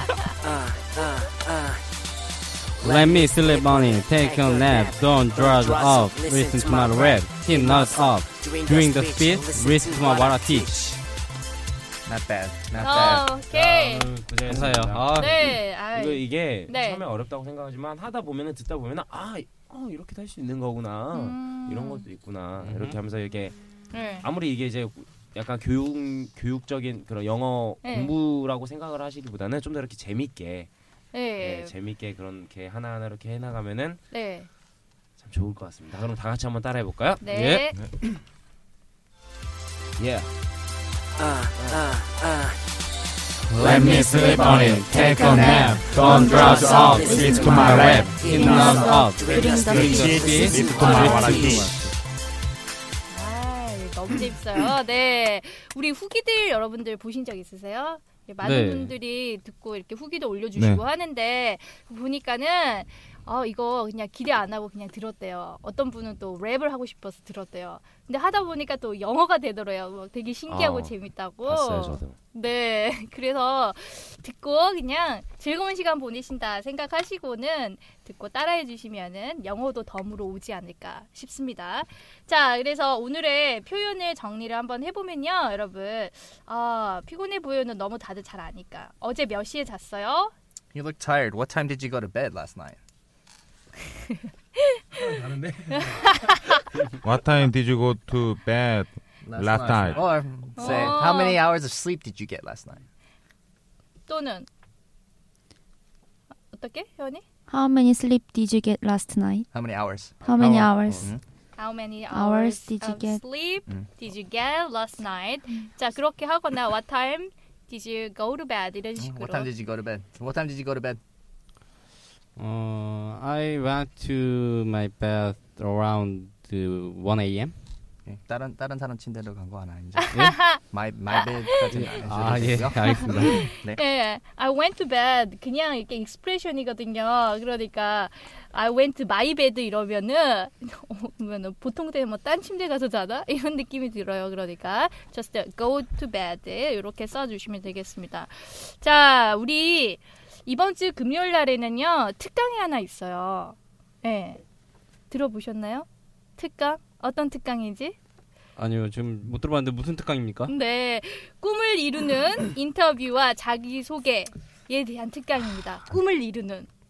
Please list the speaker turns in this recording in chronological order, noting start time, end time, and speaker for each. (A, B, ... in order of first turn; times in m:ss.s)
0:00.4-0:01.8 A
0:02.8-0:11.0 A
0:02.8-0:10.8 B
0:12.0-0:13.3 C
0:12.8-0:23.6 D
0:12.8-0:14.1 E
0:14.4-0:15.6 B
0:15.2-0:17.0 E
0:21.1-0:22.0 E
0:22.6-0:23.0 B
0:23.9-0:24.3 E
0:24.2-0:30.7 D
0:27.8-0:28.1 E
0:31.1-0:31.7 E
0:31.4-0:34.0 D
0:34.1-0:34.5 E
0:35.2-0:37.2 D
0:37.2-0:37.8 E
0:37.3-0:37.7 B
0:40.0-0:40.3 D
0:41.2-0:42.6 A
0:43.5-0:51.9 B
0:43.6-0:51.4 F
0:43.6-0:51.8 A
0:44.2-0:45.1 G
0:47.0-0:48.3 G
0:49.7-0:51.9 G
0:53.1-1:30.3 E
0:58.4-0:58.9 B
1:00.6-1:00.8 G
1:10.5-1:10.9 D
1:11.4-1:12.2 D
1:30.7-1:32.8 C
1:34.1-1:35.1 E
1:35.0-1:36.2 D
1:35.7-1:36.6 E
1:37.0-1:40.1 G
1:39.2-1:42.8 C
1:40.6-1:41.4 E
1:44.1-1:44.5 E
1:46.5-1:47.2 E
1:47.5-1:49.5 F
1:49.5-1:51.2 C
1:50.2-1:51.1 F
1:51.6-1:59.5 E
1:52.1-1:53.2 F
1:59.0-2:01.0 C
2:02.4-2:07.6 B
2:08.0-2:13.8 C
2:10.0-2:10.6 E
2:10.1-2:10.4 B
2:11.1-2:11.5 E
2:11.7-2:13.5 B
2:13.5-2:34.4 E
2:35.1-2:38.0 E
2:38.6-2:40.5 B
2:40.5-2:46.7 E